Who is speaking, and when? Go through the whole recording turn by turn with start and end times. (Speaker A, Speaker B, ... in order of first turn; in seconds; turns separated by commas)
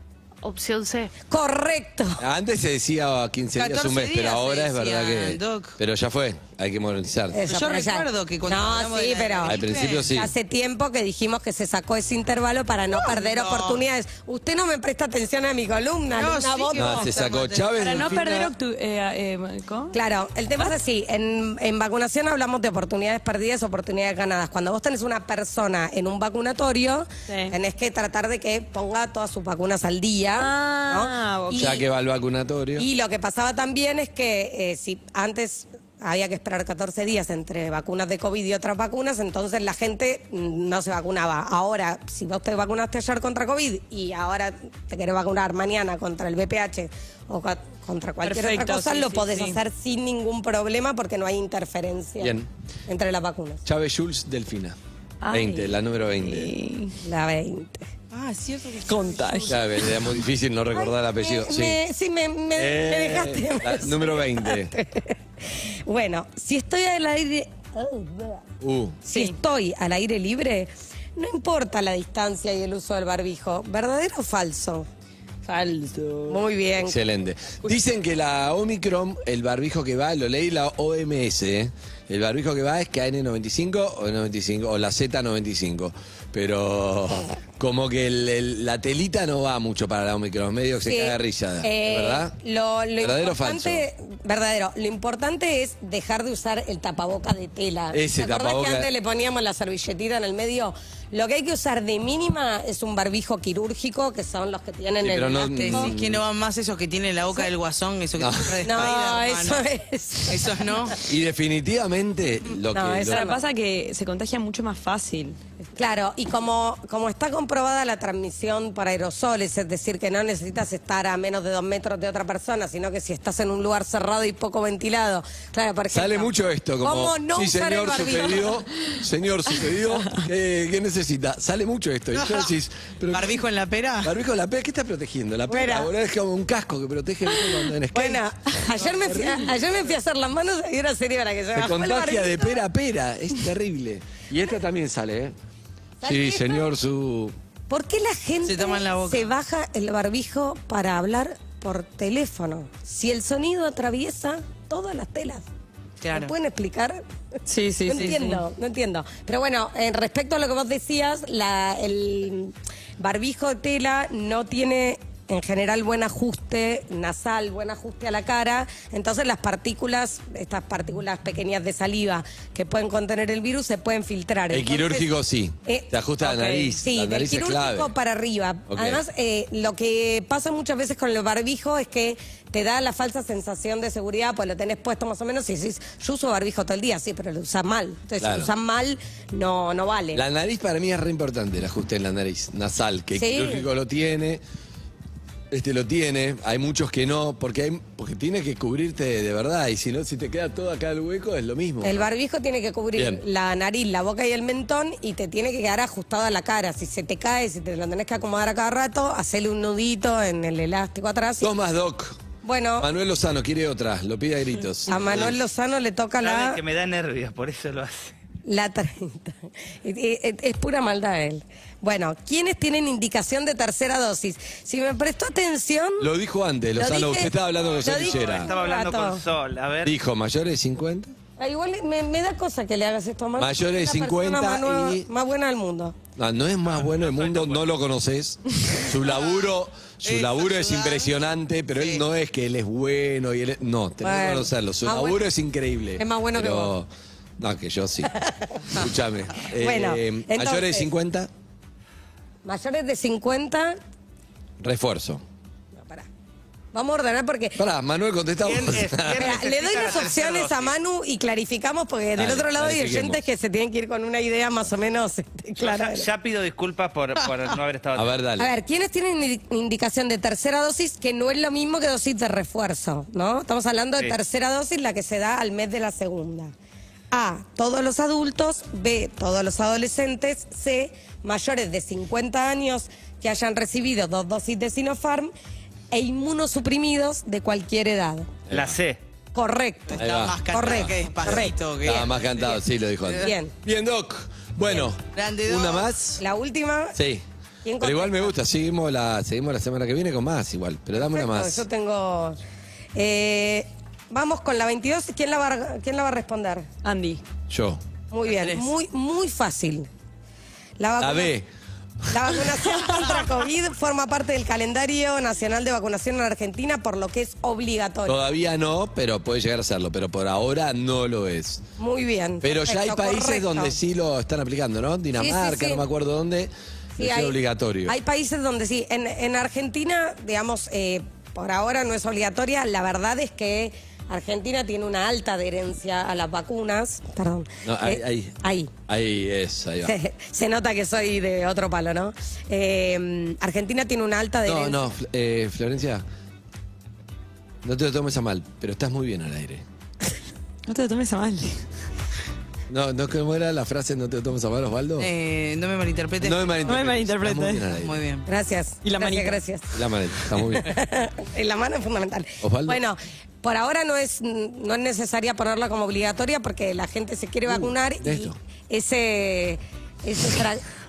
Speaker A: 1.3-2.2, Speaker B: 2.2-7.4, Speaker C: 3.6-5.8, Speaker A: 7.3-17.1, Speaker C: 7.5-10.1, Speaker B: 9.4-10.3, Speaker C: 12.9-13.8, Speaker C: 16.1-18.5, Speaker B: 16.7-18.5, Speaker D: 17.8-19.9, Speaker A: 19.9-31.8, Speaker D: 27.3-27.5, Speaker D: 30.4-31.8, Speaker B: 31.5-32.9, Speaker A: 32.8-52.3, Speaker D: 48.2-49.6, Speaker B: 52.2-52.5, Speaker A: 52.9-53.6, Speaker B: 53.6-54.8, Speaker D: 55.2-57.0, Speaker B: 55.3-56.5, Speaker A: 57.0-57.9, Speaker C: 58.1-59.6, Speaker D: 58.9-59.6, Speaker B: 59.5-61.8, Speaker A: 60.7-68.4, Speaker B: 62.5-64.7, Speaker B: 68.6-69.0, Speaker A: 69.0-74.9, Speaker D: 75.5-76.3, Speaker A: 76.3-77.0, Speaker B: 76.8-92.3, Speaker A: 90.8-105.9, Speaker B: 93.0-93.8, Speaker B: 97.9-98.9, Speaker B: 105.0-106.2, Speaker C: 105.5-109.6, Speaker B: 108.2-108.8, Speaker A: 108.6-110.6, Speaker C: 110.3-111.0, Speaker B: 111.0-113.2, Speaker A: 112.7-113.4, Speaker D: 113.1-115.4, Speaker A: 115.8-128.5, Speaker B: 125.9-133.4, Speaker C: 132.1-132.5, Speaker C: 133.1-134.1, Speaker B: 134.0-139.5, Speaker A: 135.5-135.9, Speaker A: 137.9-142.6, Speaker B: 141.5-145.3, Speaker A: 146.0-146.7, Speaker B: 146.0-147.3, Speaker A: 147.7-155.4, Speaker C: 148.4-149.3, Speaker C: 156.0-156.3, Speaker A: 156.1-157.0, Speaker D: 157.4-158.4, Speaker A: 157.8-175.1, Speaker B: 174.5-177.9, Speaker D: 176.2-176.7, Speaker A: 176.8-190.2, Speaker B: 178.7-179.0, Speaker B: 188.2-188.5, Speaker B: 190.1-194.4, Speaker A: 193.2-193.7, Speaker B: 195.5-202.1, Speaker A: 201.8-211.5, Speaker B: 202.9-203.2, Speaker B: 211.4-212.2, Speaker A: 212.4-212.9, Speaker B: 212.8-215.4, Speaker A: 214.9-216.6, Speaker E: 216.2-218.1, Speaker A: 218.4-226.1, Speaker B: 226.0-228.5, Speaker A: 226.8-229.2, Speaker E: 227.6-229.9, Speaker B: 229.8-231.1, Speaker A: 231.4-235.9, Speaker B: 233.4-235.1, Speaker B: 236.2-248.1, Speaker E: 236.8-237.7, Speaker C: 239.0-239.5, Speaker C: 240.0-241.2, Speaker C: 241.7-242.0, Speaker A: 244.0-245.2, Speaker A: 246.0-246.7, Speaker A: 248.1-248.7, Speaker B: 248.7-251.3, Speaker A: 249.6-250.9, Speaker A: 252.4-253.8, Speaker B: 254.6-255.2, Speaker A: 255.7-256.1, Speaker A: 256.7-257.6, Speaker B: 257.6-259.4, Speaker E: 258.4-260.7, Speaker A: 259.1-266.1, Speaker B: 262.1-263.2, Speaker E: 265.6-268.1, Speaker B: 267.9-268.5, Speaker A: 268.4-276.5, Speaker A: 277.1-285.3, Speaker A: 285.9-288.3, Speaker B: 288.5-288.8, Speaker E: 288.5-289.0, Speaker A: 289.3-291.5, Speaker C: 289.9-293.3, Speaker B: 290.0-296.2, Speaker A: 293.2-293.5, Speaker C: 295.1-295.9, Speaker A: 296.2-297.0, Speaker B: 296.9-297.2, Speaker A: 297.6-298.3, Speaker B: 297.8-301.6, Speaker A: 300.9-302.4, Speaker A: 302.9-306.7, Speaker D: 306.8-307.2, Speaker B: 307.5-307.8, Speaker A: 308.1-309.9, Speaker C: 308.3-308.7, Speaker A: 310.8-311.3, Speaker B: 311.0-311.5, Speaker A: 312.1-318.2, Speaker B: 318.1-321.6, Speaker A: 321.8-323.7, Speaker B: 322.4-327.9, Speaker A: 325.1-325.8, Speaker A: 326.9-338.7, Speaker B: 337.6-338.4, Speaker B: 338.9-339.9, Speaker A: 339.8-344.9, Speaker B: 344.4-346.0, Speaker B: 347.6-349.6, Speaker D: 350.7-351.6, Speaker B: 352.7-355.1, Speaker C: 355.0-356.9, Speaker B: 356.2-358.0, Speaker D: 356.7-357.7, Speaker C: 357.7-358.3, Speaker A: 358.2-359.8, Speaker D: 358.8-359.4, Speaker B: 359.7-360.7, Speaker A: 360.4-370.6, Speaker B: 362.4-362.8, Speaker B: 367.5-368.4